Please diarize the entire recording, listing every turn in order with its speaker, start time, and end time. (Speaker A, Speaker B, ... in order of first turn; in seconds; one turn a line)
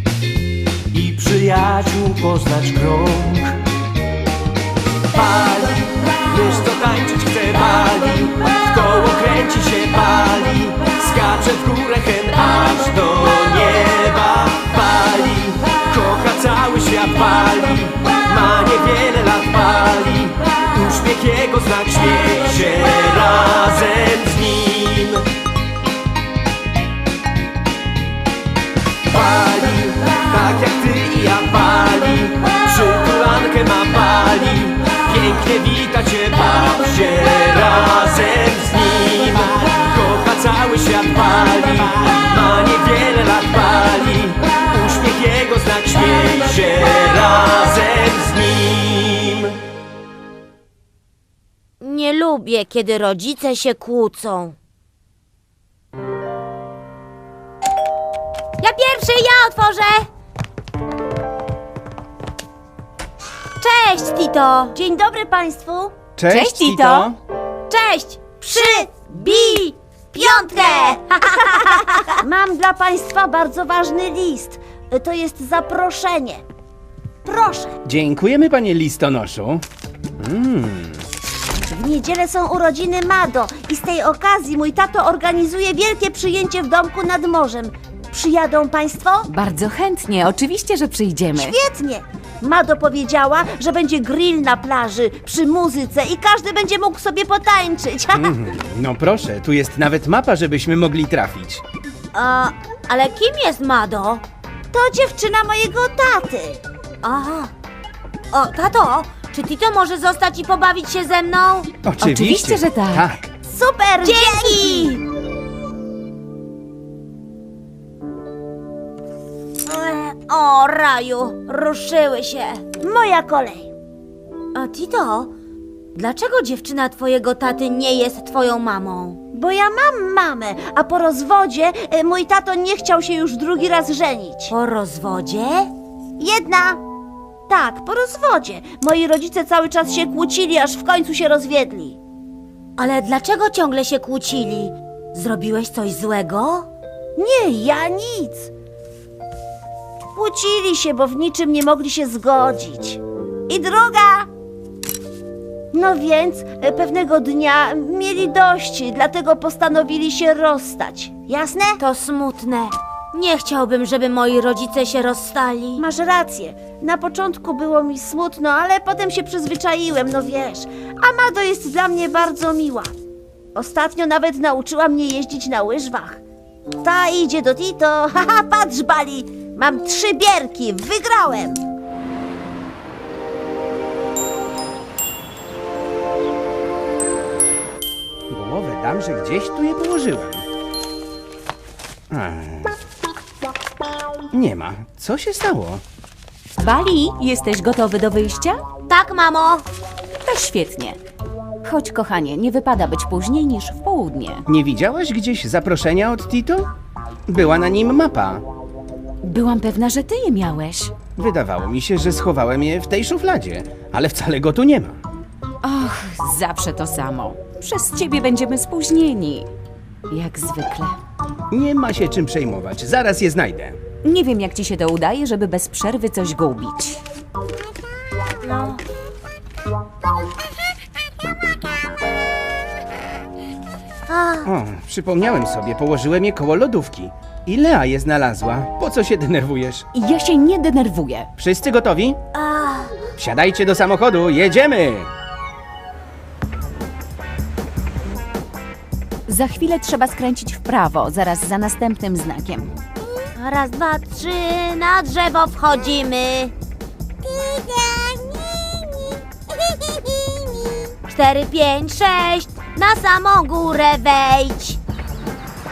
Speaker A: 0.9-3.6
Speaker A: 5.1-25.2
Speaker A: 29.1-49.6
Speaker B: 51.8-54.5
Speaker B: 58.6-60.0
Speaker B: 63.6-64.8
Speaker C: 64.7-65.9
Speaker D: 66.2-67.2
Speaker E: 66.3-67.1
Speaker B: 67.7-68.8
Speaker C: 68.4-71.0
Speaker B: 70.2-72.0
Speaker C: 71.6-76.4
Speaker C: 77.2-77.7
Speaker D: 77.8-79.6
Speaker D: 80.2-81.0
Speaker C: 81.7-89.3
Speaker E: 89.3-91.5
Speaker C: 91.3-98.3
Speaker D: 98.2-101.6
Speaker B: 102.1-104.2
Speaker C: 104.7-106.6
Speaker B: 107.0-107.5
Speaker B: 108.3-111.7
Speaker D: 111.8-113.2
Speaker E: 112.0-113.1
Speaker C: 113.4-115.0
Speaker B: 114.0-115.0
Speaker B: 119.7-122.6
Speaker C: 122.8-123.7
Speaker B: 124.5-125.3
Speaker B: 125.9-129.2
Speaker C: 129.3-134.5
Speaker B: 134.5-135.7
Speaker C: 136.2-136.8
Speaker C: 137.5-142.0
Speaker B: 142.8-146.7
Speaker C: 147.2-148.5
Speaker C: 150.1-154.3
Speaker C: 155.7-161.8
Speaker B: 161.8-165.8
Speaker C: 165.8-172.9
Speaker C: 173.5-176.2
Speaker C: 176.8-181.6
Speaker D: 188.3-190.4
Speaker D: 192.1-192.7
Speaker D: 194.3-195.8
Speaker E: 196.6-198.6
Speaker B: 198.9-199.6
Speaker E: 200.2-201.0
Speaker E: 201.6-204.4
Speaker D: 204.5-206.7
Speaker D: 207.3-208.4
Speaker E: 209.2-210.9
Speaker D: 211.2-215.0
Speaker E: 215.6-219.5
Speaker E: 220.1-220.9
Speaker D: 221.5-223.8
Speaker E: 224.1-227.0
Speaker B: 228.4-228.8
Speaker B: 234.1-234.5
Speaker D: 234.4-239.8
Speaker E: 239.9-241.3
Speaker D: 241.4-242.2
Speaker B: 242.3-243.0
Speaker D: 243.2-245.1
Speaker E: 249.3-252.7
Speaker B: 253.3-256.5
Speaker B: 257.5-258.6
Speaker B: 261.1-264.8